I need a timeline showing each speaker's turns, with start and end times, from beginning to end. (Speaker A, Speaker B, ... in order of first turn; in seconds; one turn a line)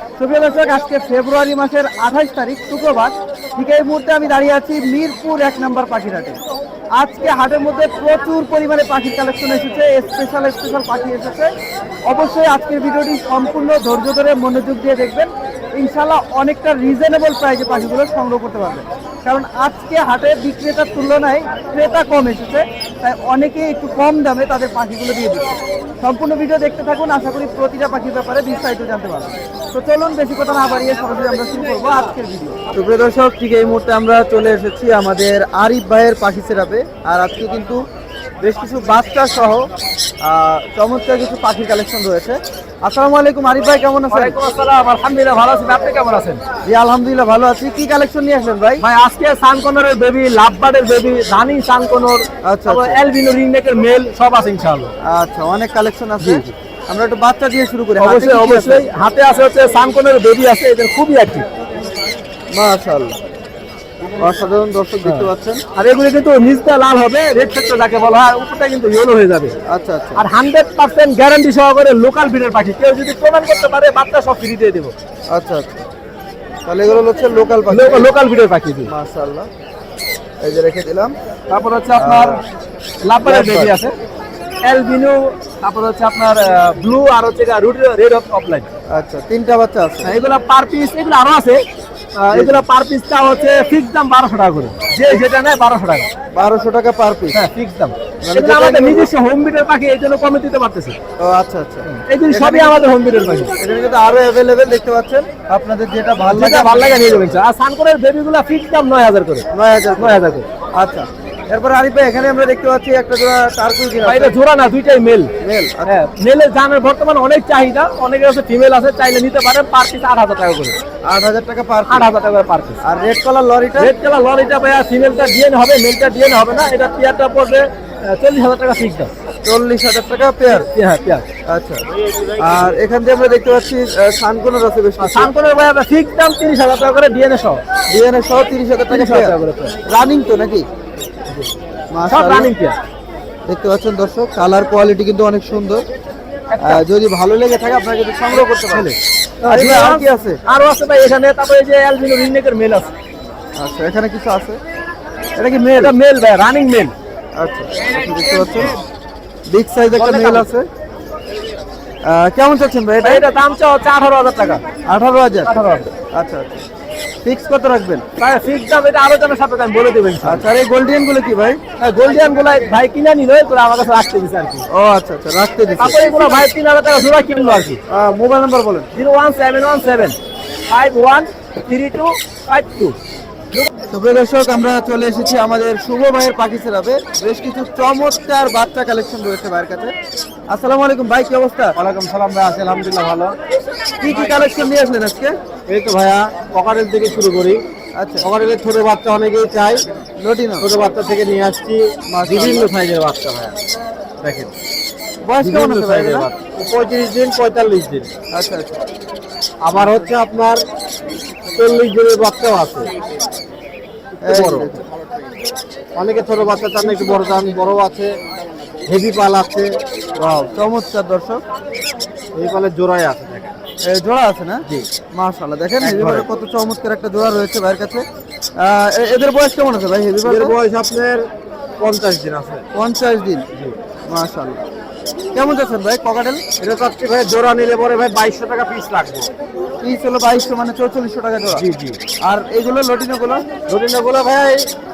Speaker A: 0.2-6.4
Speaker A: 7.0-11.5
Speaker A: 12.0-37.8
Speaker A: 38.4-39.7
Speaker A: 40.2-44.4
Speaker B: 44.1-46.4
Speaker A: 46.6-48.8
Speaker B: 48.8-54.9
Speaker A: 52.4-53.0
Speaker A: 55.0-58.9
Speaker B: 56.2-56.5
Speaker B: 58.0-61.5
Speaker A: 62.5-63.2
Speaker A: 64.2-65.6
Speaker B: 65.0-69.5
Speaker A: 69.7-70.2
Speaker B: 70.2-74.9
Speaker A: 75.3-75.9
Speaker A: 76.7-78.1
Speaker B: 77.7-78.9
Speaker A: 78.8-79.5
Speaker A: 80.4-81.1
Speaker B: 81.5-82.4
Speaker A: 82.0-82.4
Speaker B: 83.0-83.9
Speaker A: 83.2-83.7
Speaker B: 84.6-88.7
Speaker A: 88.9-90.1
Speaker B: 90.0-91.6
Speaker B: 92.2-96.1
Speaker A: 92.3-92.6
Speaker A: 96.3-97.4
Speaker B: 97.3-101.0
Speaker A: 98.2-99.1
Speaker A: 101.2-102.8
Speaker B: 101.9-103.5
Speaker A: 103.6-107.3
Speaker B: 106.3-110.5
Speaker A: 109.5-110.2
Speaker A: 110.8-114.3
Speaker B: 114.0-115.3
Speaker A: 115.4-116.0
Speaker B: 115.9-120.8
Speaker A: 121.0-122.1
Speaker B: 121.9-122.8
Speaker A: 122.8-123.9
Speaker B: 123.8-129.1
Speaker A: 129.4-130.7
Speaker B: 130.5-131.2
Speaker A: 131.5-131.8
Speaker A: 132.4-135.3
Speaker B: 135.0-137.6
Speaker A: 137.9-140.7
Speaker B: 138.9-139.7
Speaker A: 141.9-142.5
Speaker B: 142.1-142.8
Speaker A: 143.5-145.8
Speaker B: 146.5-146.8
Speaker A: 146.6-148.9
Speaker B: 148.7-152.9
Speaker A: 149.5-150.4
Speaker A: 153.6-154.6
Speaker A: 155.4-155.9
Speaker B: 155.8-156.9
Speaker A: 157.4-158.8
Speaker A: 159.5-160.7
Speaker B: 159.9-160.5
Speaker A: 162.0-163.2
Speaker B: 163.0-164.6
Speaker A: 164.8-165.5
Speaker B: 165.5-165.9
Speaker A: 166.1-166.6
Speaker A: 167.2-168.0
Speaker B: 168.2-170.4
Speaker A: 170.2-171.6
Speaker B: 171.8-174.6
Speaker A: 174.7-176.1
Speaker B: 175.8-177.8
Speaker A: 177.9-178.9
Speaker B: 178.9-180.2
Speaker B: 180.7-183.0
Speaker A: 183.9-189.9
Speaker A: 190.5-191.8
Speaker B: 191.8-193.3
Speaker A: 194.0-195.3
Speaker B: 195.7-197.6
Speaker A: 198.0-198.2
Speaker B: 198.2-199.8
Speaker A: 200.2-200.7
Speaker B: 200.6-203.5
Speaker A: 202.1-202.7
Speaker B: 204.2-204.5
Speaker A: 205.2-206.3
Speaker B: 205.4-208.1
Speaker A: 208.3-208.8
Speaker B: 209.6-210.6
Speaker A: 209.8-210.1
Speaker B: 211.5-212.9
Speaker B: 214.2-214.8
Speaker A: 214.2-214.8
Speaker B: 215.9-218.2
Speaker B: 218.9-219.8
Speaker A: 220.2-221.4
Speaker B: 222.3-223.5
Speaker A: 223.8-224.6
Speaker A: 225.1-228.0
Speaker B: 225.8-226.3
Speaker A: 228.6-230.5
Speaker B: 230.2-232.6
Speaker A: 232.7-233.4
Speaker A: 234.1-234.6
Speaker A: 235.3-236.4
Speaker B: 236.6-239.3
Speaker A: 239.8-241.6
Speaker B: 241.5-242.0
Speaker A: 242.2-243.4
Speaker B: 243.7-244.7